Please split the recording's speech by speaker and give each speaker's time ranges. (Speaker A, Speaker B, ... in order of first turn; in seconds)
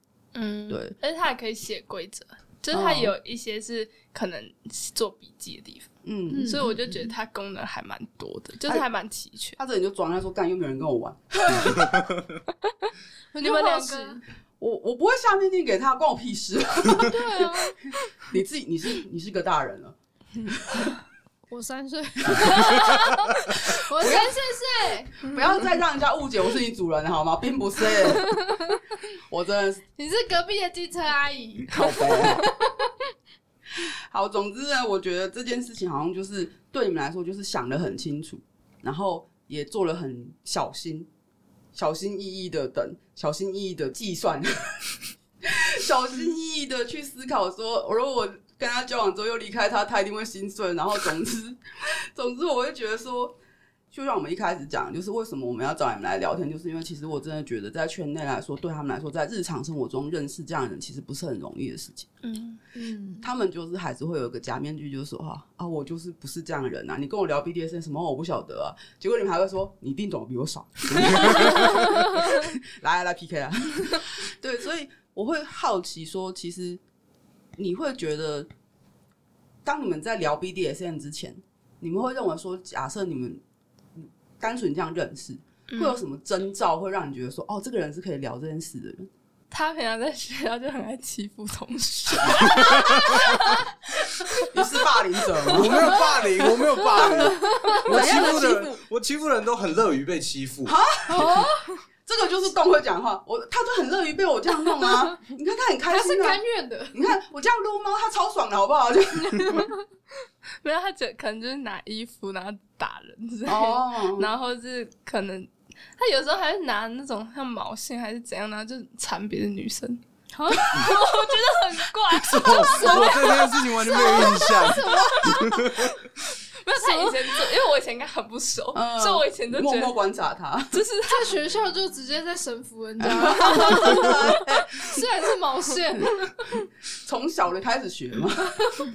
Speaker A: 0.3-9.6, 13.4-14.2, 62.2-62.6, 85.7-86.0, 89.5-94.5, 110.6-120.0, 120.7-124.6, 126.6-129.9, 130.7-131.4
Speaker B: 0.7-0.9, 2.7-3.1, 6.0-6.6, 9.6-11.9, 14.6-20.9, 22.3-22.7, 23.6-24.5, 25.2-28.4, 29.3-29.8, 31.7-32.5, 33.8-41.1, 41.7-44.9, 45.4-51.6, 52.1-53.4, 53.9-62.1, 63.2-76.8, 77.6-78.5, 79.7-83.4, 84.0-89.1, 94.4-96.1, 97.0-98.8, 100.7-101.5, 102.1-106.4, 106.9-109.7, 113.5-114.3, 124.9-125.3, 128.7-130.8, 133.0-135.1, 137.0-138.6
Speaker C: 6.3-7.1, 11.5-11.8, 13.3-14.2, 16.9-18.2, 21.5-25.4, 28.3-28.6, 30.0-32.9, 62.8-63.2, 101.1-101.7, 105.9-107.0, 109.4-109.7, 120.3-121.0, 122.5-125.8, 126.8-127.2, 131.1-136.5
Speaker D: 92.7-93.1, 95.5-101.3, 122.3-126.0